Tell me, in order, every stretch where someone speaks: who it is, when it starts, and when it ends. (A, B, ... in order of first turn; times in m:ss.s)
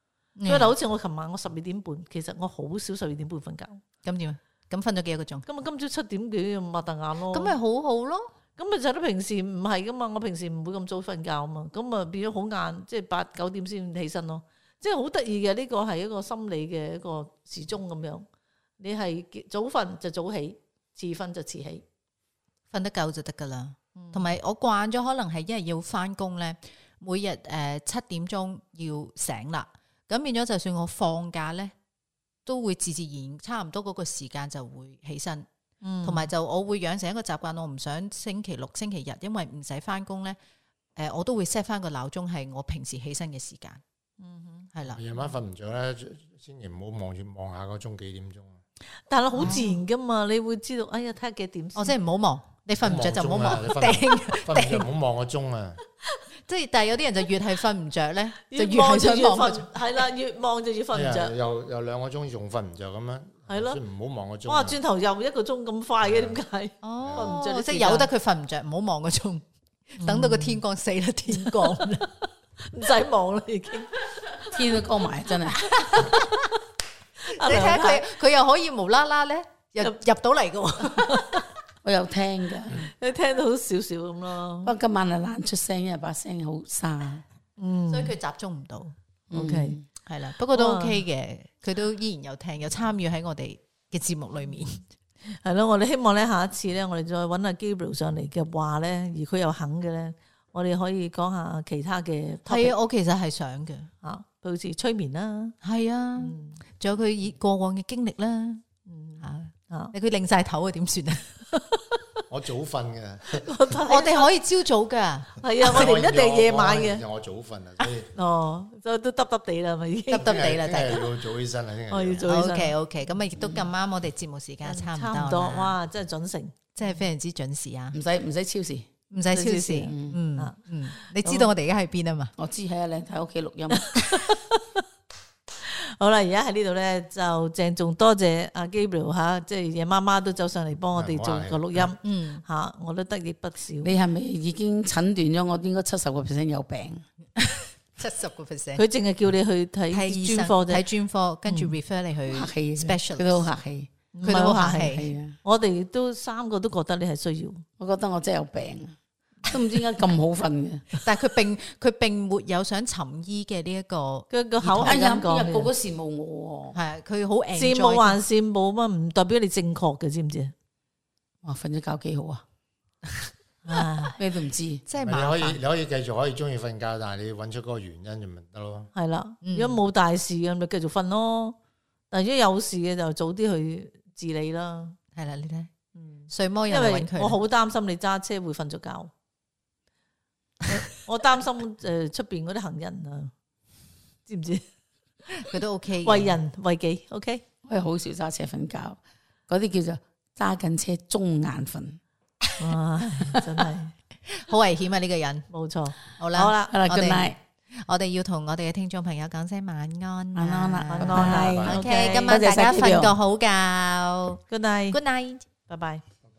0:00.4-0:00.7 A
0:00.5-0:03.8 B
0:04.0-0:05.5 A
0:05.5-0:07.6 B
0:07.3-0:08.3 A
0:08.6-0:18.3 B
0:18.8-0:21.8 B
0:22.7-0:31.7 A
0:24.0-0:24.4 B
0:32.4-0:35.5 A
0:35.8-0:36.3 B
0:36.0-0:40.4 A
0:41.0-0:43.8 A
0:44.2-0:44.7 B
0:44.7-0:45.0 A
0:44.9-0:48.6 C
0:49.1-0:52.0 B
0:49.3-0:49.8 A
0:51.8-0:54.9 A
0:52.8-0:55.8 C
0:56.5-0:59.7 A
0:58.5-1:01.3 B
1:00.9-1:04.8 C
1:03.5-1:03.8 B
1:04.5-1:08.1 B
1:06.0-1:06.4 C
1:06.8-1:12.1 A
1:07.0-1:07.4 C
1:10.0-1:10.6 B
1:11.3-1:14.5 B
1:14.5-1:15.7 D
1:15.7-1:16.5 B
1:17.2-1:18.1 B
1:17.4-1:21.4 A
1:20.8-1:21.5 B
1:21.8-1:22.9 D
1:22.8-1:24.7 B
1:24.6-1:27.2 D
1:27.6-1:28.2 B
1:27.9-1:28.9 A
1:29.3-1:29.8 D
1:29.3-1:29.8 B
1:30.1-1:34.9 A
1:30.5-1:31.0 B
1:35.2-1:42.8 B
1:42.5-1:43.9 A
1:44.0-1:45.6 B
1:45.6-1:48.6 A
1:46.2-1:46.6 B
1:48.9-1:49.9 B
1:49.2-1:51.6 A
1:52.3-1:53.5 C
1:53.4-1:54.3 B
1:53.9-1:55.4 A
1:55.4-1:57.0 B
1:55.6-1:58.1 C
1:58.1-2:00.5 B
2:00.1-2:01.1 A
2:00.1-2:02.3 C
2:01.9-2:02.8 B
2:02.3-2:05.8 A
2:03.4-2:03.7 D
2:04.6-2:07.0 B
2:06.8-2:08.0 A
2:07.9-2:08.9 D
2:09.1-2:12.3 A
2:09.3-2:11.5 B
2:09.9-2:10.2 D
2:12.4-2:14.2 D
2:13.9-2:14.8 B
2:15.6-2:23.9 B
2:21.0-2:21.9 C
2:22.0-2:22.4 A
2:23.8-2:27.0 D
2:27.4-2:28.8 A
2:28.8-2:30.8 B
2:29.9-2:33.5 A
2:32.3-2:35.4 D
2:34.1-2:34.9 B
2:34.2-2:35.1 A
2:35.4-2:37.6 B
2:37.8-2:41.0 D
2:41.0-2:45.0 A
2:44.3-2:45.7 B
2:44.8-2:46.8 D
2:46.7-2:48.2 A
2:47.6-2:50.5 B
2:51.4-2:52.4 D
2:53.6-2:54.2 B
2:54.2-2:54.8 D
2:54.9-2:55.6 A
2:55.0-2:58.9 C
2:59.0-3:01.6 B
2:59.4-2:59.8 A
3:02.1-3:05.0 B
3:05.1-3:05.7 A
3:06.0-3:09.1 B
3:06.3-3:07.4 A
3:10.7-3:13.3 B
3:14.3-3:14.6 B
3:15.4-3:16.4 A
3:16.0-3:17.4 B
3:17.7-3:22.0 D
3:22.6-3:23.9 B
3:24.3-3:25.5 A
3:25.5-3:26.7 B
3:26.2-3:35.4 A
3:26.7-3:27.4 D
3:30.4-3:33.2 D
3:30.9-3:32.4 B
3:31.4-3:31.9 C
3:34.5-3:35.0 B
3:35.7-3:36.0 B